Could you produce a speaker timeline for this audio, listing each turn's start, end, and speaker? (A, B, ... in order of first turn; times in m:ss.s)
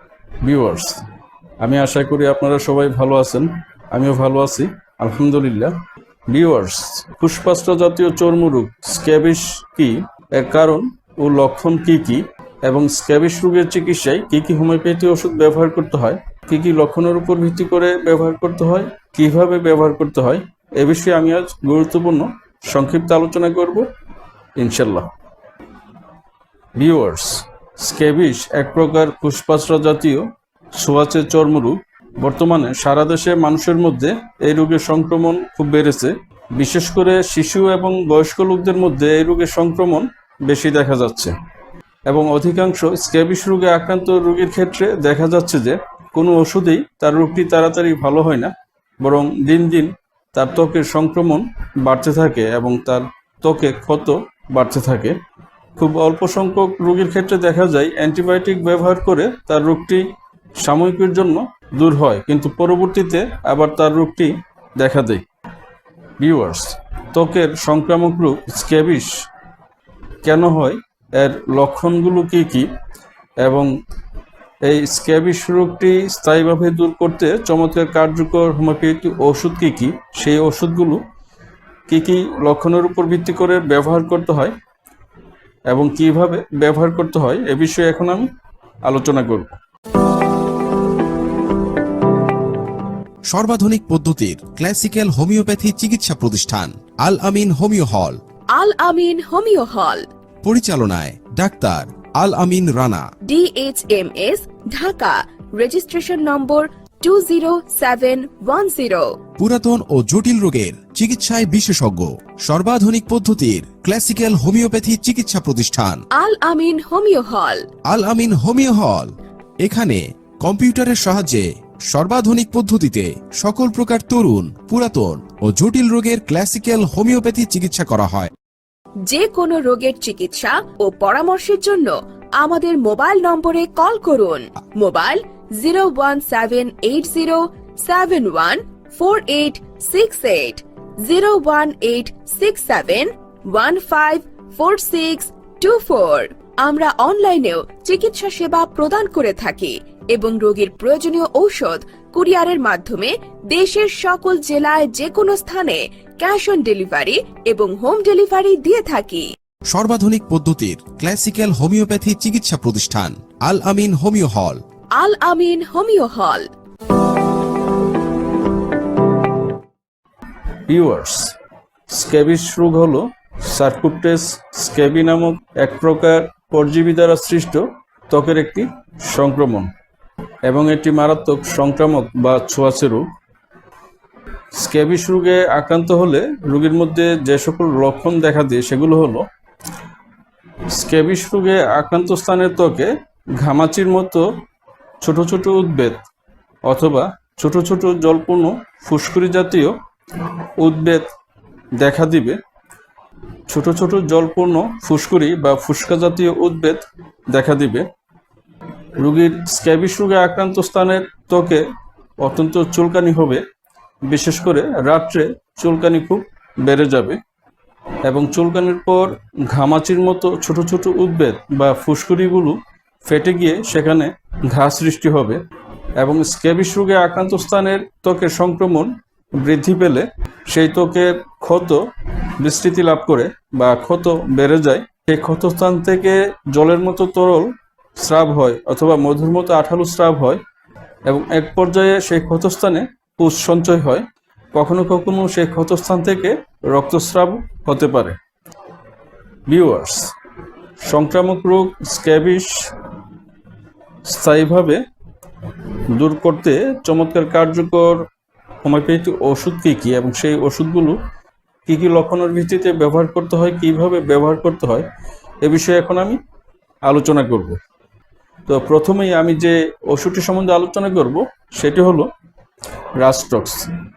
0:00.4-0:01.0 A
0:01.6-0:05.8 A
0:06.3-0:23.9 A
0:24.6-0:25.1 A
0:26.8-0:41.3 A
0:42.1-0:55.2 A
0:55.8-1:00.0 A
1:00.6-1:05.2 A
1:06.2-1:09.2 A
1:10.2-1:12.7 A
1:13.4-1:13.7 A
1:14.6-1:21.0 A
1:21.9-1:24.5 A
1:25.7-1:28.3 A
1:28.8-1:29.6 A
1:33.3-1:38.2 B
1:38.5-1:40.1 C
1:40.4-1:43.1 B
1:43.3-1:49.2 C
1:49.4-1:56.0 B
1:56.2-1:57.6 C
1:57.9-2:08.3 B
2:09.0-2:39.3 C
2:39.7-2:44.6 B
2:45.0-2:46.5 C
2:50.7-2:51.3 A
2:51.9-2:59.7 A
3:00.4-3:03.1 A
3:04.6-3:09.2 A
3:10.7-3:14.2 A
3:15.0-3:16.0 A
3:16.6-3:21.1 A
3:21.8-3:22.4 A
3:23.5-3:27.9 A
3:29.0-3:31.6 A
3:32.2-3:33.4 A
3:34.0-3:37.2 A
3:38.0-3:45.4 A
3:46.0-4:00.4 A
4:01.0-4:08.2 A
4:09.5-4:10.1 A
4:10.8-4:12.7 A
4:14.0-4:14.8 A
4:15.9-4:18.0 A
4:18.6-4:21.0 A
4:21.6-4:24.9 A
4:25.4-4:26.2 A
4:26.8-4:27.6 A
4:28.5-4:32.1 A
4:33.0-4:33.7 A